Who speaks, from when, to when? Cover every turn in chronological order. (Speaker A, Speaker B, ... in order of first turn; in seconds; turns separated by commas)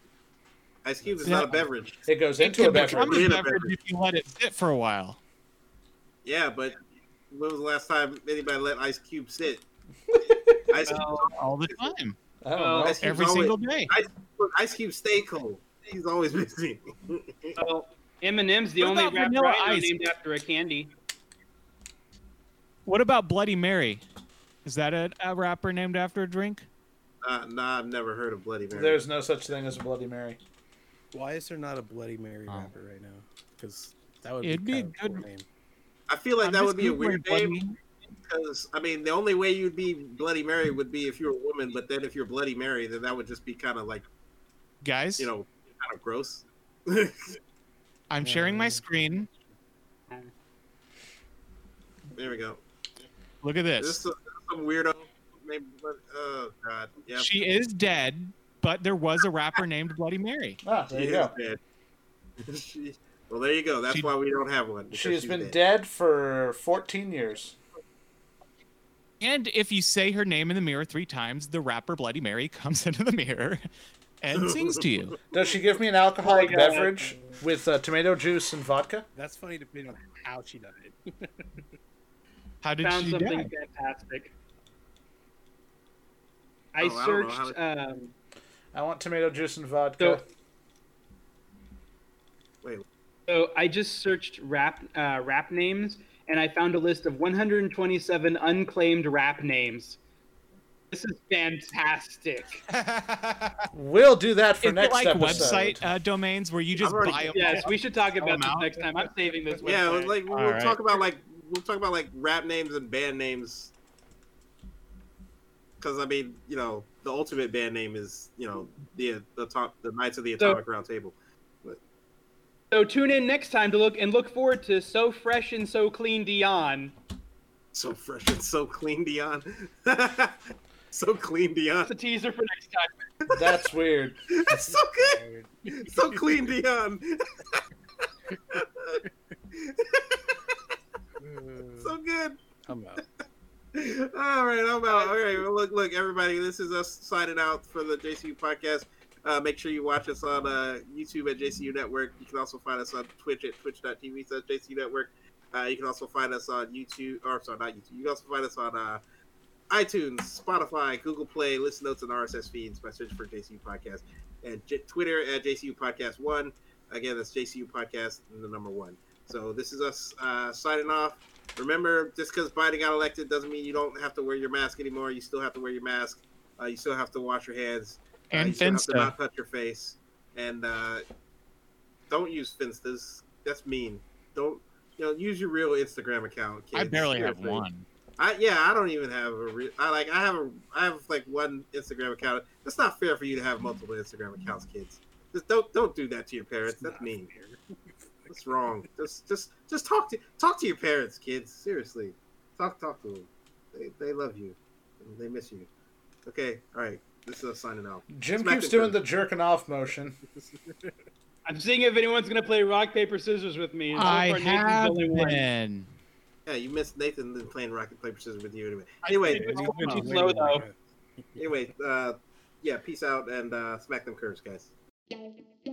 Speaker A: 0.8-2.0, Speaker B: 1.2-1.6, Speaker C: 2.1-3.3, Speaker B: 2.4-5.2, Speaker A: 2.8-3.7, Speaker A: 6.2-6.8, Speaker A: 7.3-9.6, Speaker A: 10.7-11.4, Speaker D: 10.8-11.3, Speaker B: 11.3-12.2, Speaker C: 12.4-13.0, Speaker D: 12.5-12.9, Speaker A: 12.8-17.6, Speaker B: 13.0-13.9, Speaker D: 17.6-20.9, Speaker B: 18.8-19.9, Speaker B: 22.9-24.0, Speaker B: 24.6-26.7, Speaker A: 27.2-29.0, Speaker C: 28.7-30.4, Speaker E: 31.1-35.5, Speaker B: 32.5-32.7, Speaker B: 34.4-35.3, Speaker A: 36.1-37.6, Speaker B: 36.4-37.8, Speaker A: 38.2-44.1, Speaker B: 44.8-45.3, Speaker A: 45.2-47.4, Speaker B: 48.1-49.3, Speaker E: 48.2-48.8, Speaker A: 52.1-52.6, Speaker B: 53.4-54.0, Speaker A: 53.8-57.3, Speaker B: 57.2-60.6, Speaker C: 60.6-61.3, Speaker A: 60.9-61.6, Speaker A: 62.4-65.5, Speaker C: 64.9-67.6, Speaker B: 69.2-73.7, Speaker B: 74.2-75.2, Speaker A: 74.4-74.8, Speaker C: 75.3-79.0, Speaker D: 76.2-77.0, Speaker E: 77.1-77.4, Speaker E: 79.2-81.6, Speaker B: 82.6-83.5, Speaker D: 82.8-84.3, Speaker D: 86.7-88.1, Speaker A: 86.8-87.6, Speaker C: 88.7-90.2, Speaker D: 93.3-100.0, Speaker D: 100.9-102.6, Speaker B: 102.7-103.7, Speaker C: 103.7-105.9, Speaker B: 104.6-108.9, Speaker A: 106.8-107.7, Speaker D: 107.3-110.2, Speaker A: 109.6-113.7, Speaker B: 110.3-110.8, Speaker A: 115.8-121.8, Speaker D: 122.7-126.9, Speaker A: 127.7-131.9, Speaker D: 131.8-132.9, Speaker A: 133.2-133.6, Speaker C: 133.3-134.8, Speaker A: 134.3-135.2, Speaker E: 135.0-136.4, Speaker A: 135.8-137.6, Speaker A: 138.5-140.6, Speaker E: 141.2-142.0, Speaker A: 141.8-142.4, Speaker E: 142.7-143.0, Speaker A: 143.7-159.0, Speaker A: 159.7-181.1, Speaker B: 178.3-179.1, Speaker A: 182.1-187.6, Speaker B: 186.7-187.9, Speaker A: 188.2-197.3, Speaker E: 196.8-197.7, Speaker E: 198.2-198.7, Speaker A: 198.3-205.7, Speaker A: 206.3-209.0, Speaker C: 208.1-210.2, Speaker E: 210.3-210.9, Speaker D: 211.5-215.4, Speaker B: 213.9-215.9, Speaker A: 216.5-219.5, Speaker B: 219.0-220.3, Speaker E: 219.3-220.8, Speaker D: 219.4-220.7, Speaker A: 221.4-224.7